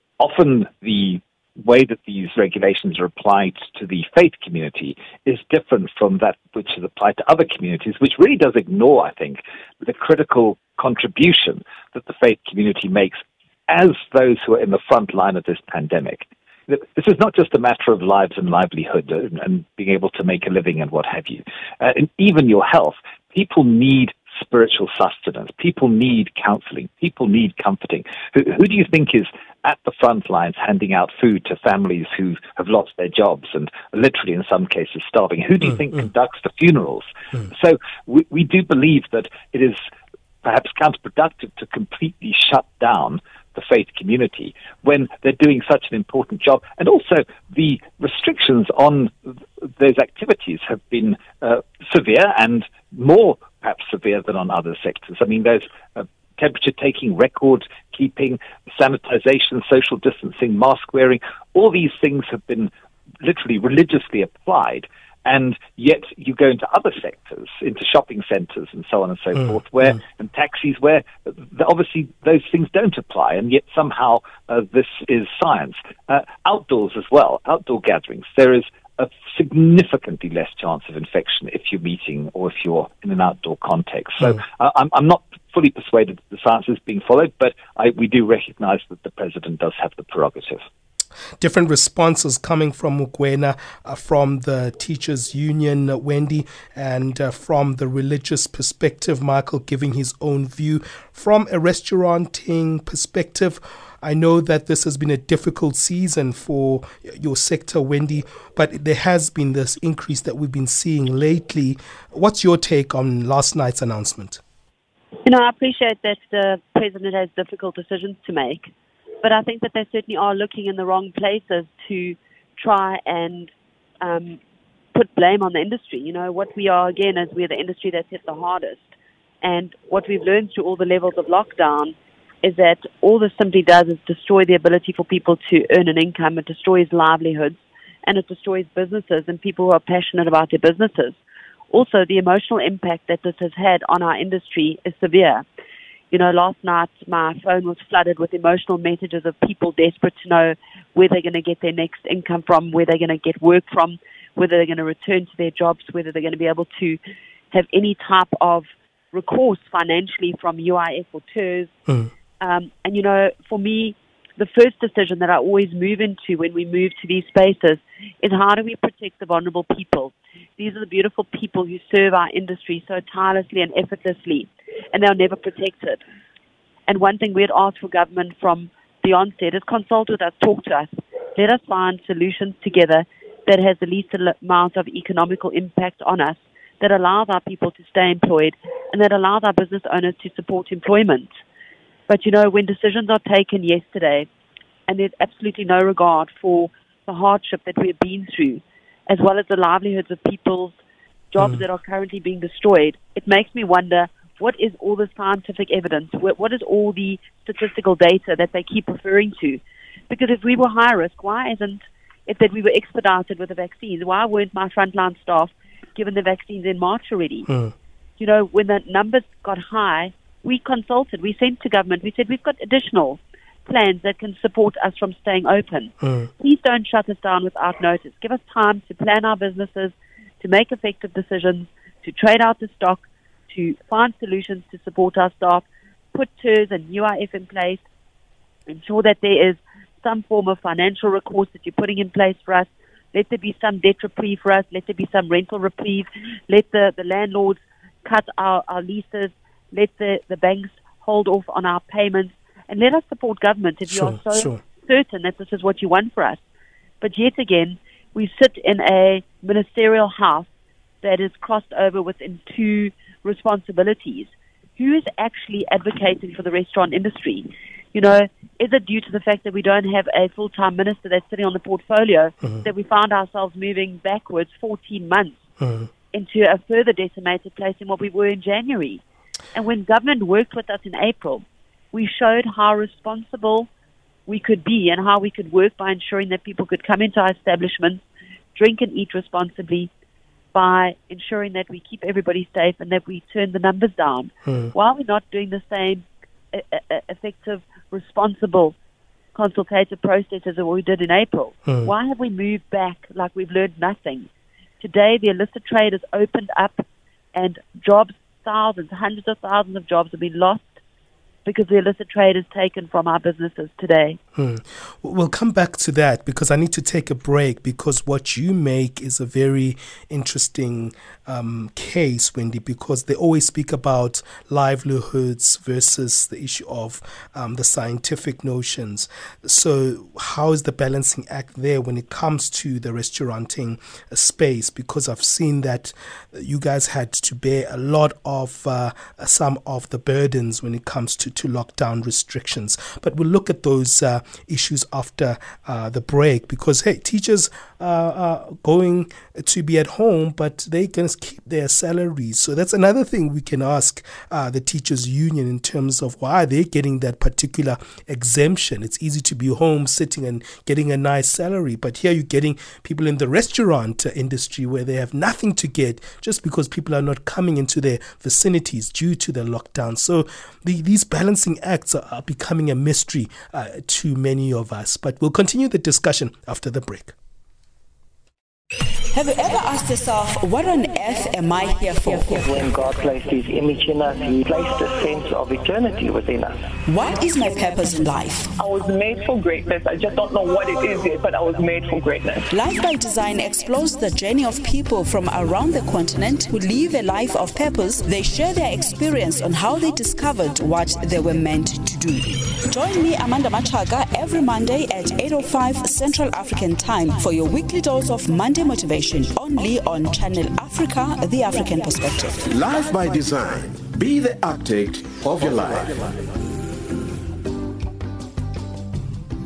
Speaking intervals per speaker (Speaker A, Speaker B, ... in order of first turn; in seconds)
Speaker A: 0.2-39.8, 40.4-62.7, 63.2-90.7
Speaker B: 91.4-114.4, 217.5-217.7, 226.0-226.3, 253.9-254.6, 275.6-275.9, 294.5-294.7, 301.7-301.9, 314.4-377.1
Speaker C: 115.3-118.7, 119.2-124.4, 124.9-128.9, 129.4-141.2, 141.7-145.4, 146.1-157.0, 157.5-161.7, 162.4-176.0, 176.9-191.3, 192.1-194.3, 194.9-200.8, 201.3-217.5, 218.2-237.8, 238.7-256.4, 257.0-260.5, 261.0-275.4, 276.1-279.0, 279.5-283.7, 284.3-288.0, 288.6-289.9, 290.5-298.8, 299.4-304.3, 304.8-310.8, 311.4-314.2
Speaker D: 379.1-382.5, 386.9-388.5, 392.5-412.4
Speaker E: 382.4-386.6
Speaker F: 388.6-392.5
Speaker G: 412.4-416.3